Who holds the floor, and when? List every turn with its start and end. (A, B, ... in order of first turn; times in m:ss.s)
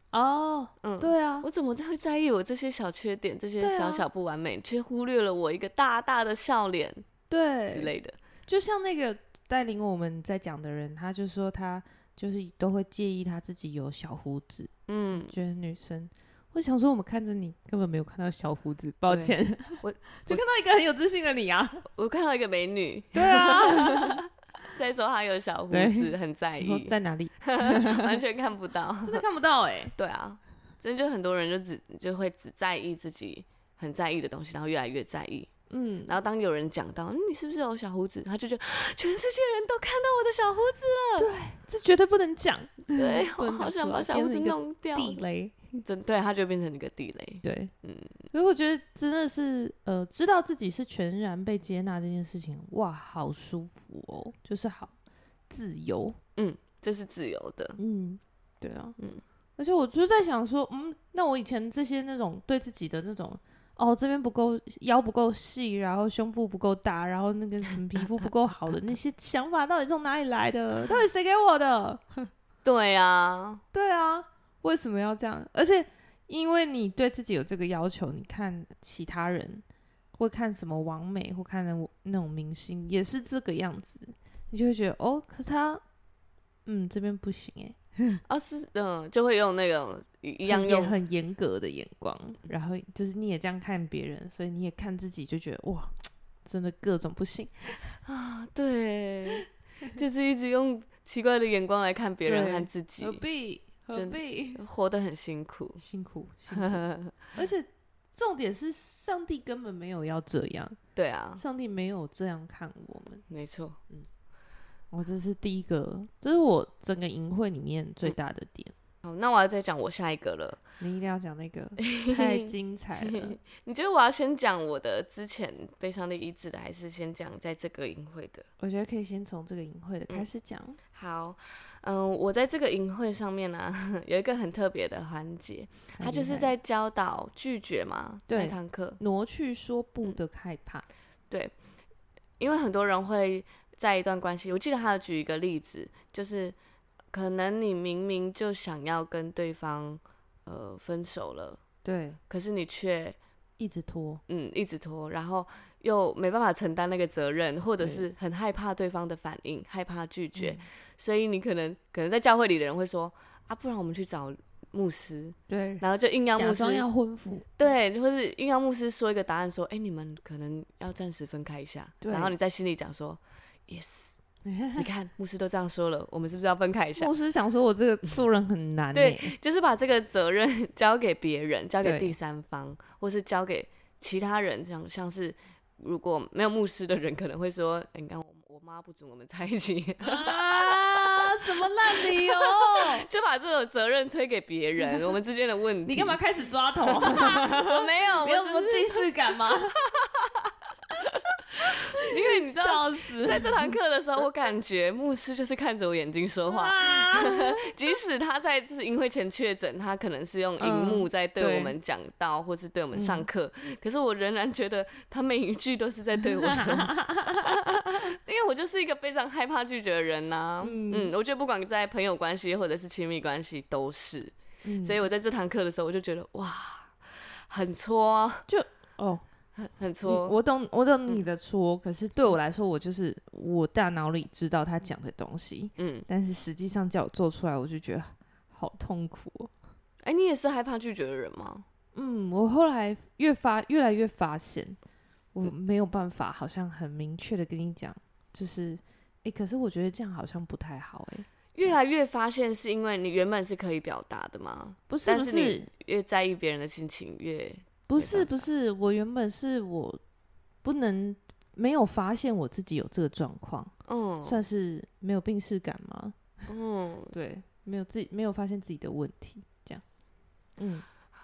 0:00.1-0:01.5 A
0:00.8-0:07.1 B
0:03.6-0:04.0 A
0:07.3-0:07.9 A
0:07.7-0:08.2 B
0:08.5-0:21.9 A
0:14.9-0:15.4 B
0:19.1-0:20.4 B
0:22.0-0:29.2 B
0:23.1-0:24.2 A
0:25.7-0:28.1 A
0:29.0-0:29.9 A
0:30.0-0:35.5 B
0:35.7-0:36.1 A
0:36.1-0:41.3 B
0:41.2-0:45.8 A
0:42.9-0:45.2 B
0:45.8-0:48.3 B
0:47.4-0:47.7 A
0:48.3-0:54.9 A
0:55.5-0:56.2 A
0:56.4-0:57.8 B
0:57.8-0:59.0 A
0:59.0-0:59.2 B
0:59.6-1:12.3 A
1:12.6-1:13.6 B
1:13.7-1:25.8 A
1:26.6-1:28.2 A
1:28.3-1:31.0 B
1:30.4-1:37.9 A
1:38.0-1:43.2 B
1:42.2-1:44.6 A
1:43.9-1:45.8 B
1:45.8-1:50.8 A
1:46.5-1:47.2 B
1:51.0-1:51.4 B
1:51.4-1:53.2 A
1:53.3-1:53.8 B
1:54.9-1:58.7 A
1:59.0-2:00.6 B
2:00.8-2:03.4 A
2:01.8-2:08.5 B
2:08.6-2:10.8 A
2:10.9-2:19.0 B
2:16.0-2:16.5 A
2:18.3-2:20.8 A
2:22.4-2:26.5 B
2:27.1-2:31.6 B
2:31.8-2:32.2 A
2:32.3-2:33.2 B
2:33.6-2:34.2 A
2:34.3-2:46.8 B
2:37.8-2:38.0 A
2:40.4-2:40.6 A
2:45.5-2:45.8 A
2:46.4-2:47.5 A
2:47.6-2:54.1 B
2:52.0-2:52.3 A
2:54.4-2:54.9 A
2:54.7-2:57.1 B
2:57.0-2:59.4 A
2:58.9-3:16.2 B
3:01.8-3:02.1 A
3:10.0-3:13.1 A
3:15.9-3:19.8 A
3:16.9-3:48.4 B
3:21.6-3:23.7 A
3:26.5-3:27.6 A
3:30.6-3:31.7 A
3:32.9-3:33.2 A
3:36.4-3:37.9 A
3:40.6-3:41.1 A
3:44.6-3:45.0 A
3:48.5-3:49.2 A
3:49.6-3:50.4 B
3:50.0-3:59.5 A
3:55.8-3:56.1 B
4:00.0-4:01.6 B
4:01.9-4:04.8 A
4:05.3-4:11.7 A
4:11.5-4:18.5 B
4:14.9-4:15.7 A
4:17.9-4:20.0 A
4:20.6-4:23.7 A
4:23.9-4:24.4 B
4:24.2-4:26.2 A
4:26.5-4:27.1 B
4:27.1-4:29.8 A
4:30.6-4:30.8 A